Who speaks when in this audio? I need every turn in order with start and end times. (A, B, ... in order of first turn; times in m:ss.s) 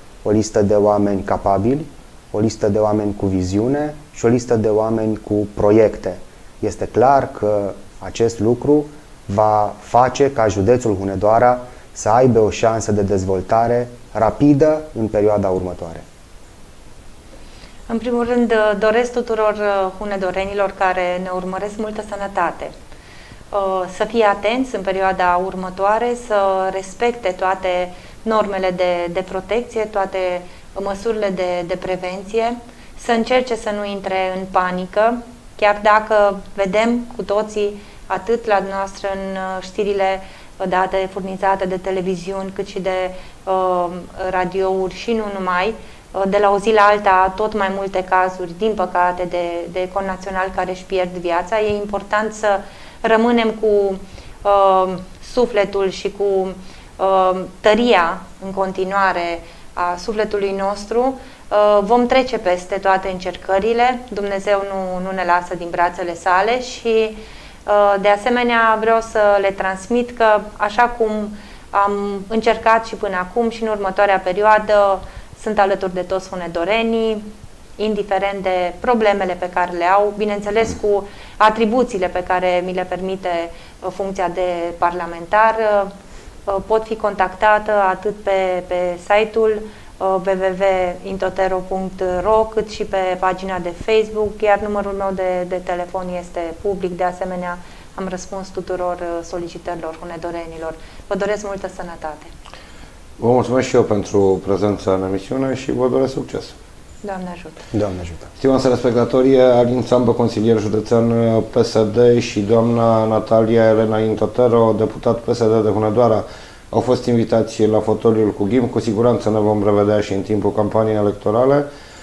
0:00.2-0:16.0 A
0:17.9-0:22.7 B
0:23.5-1:25.9 B
1:26.5-1:42.3 B
1:43.2-1:46.6 C
1:47.0-1:47.6 B
1:47.7-1:48.3 A
1:48.4-2:01.7 C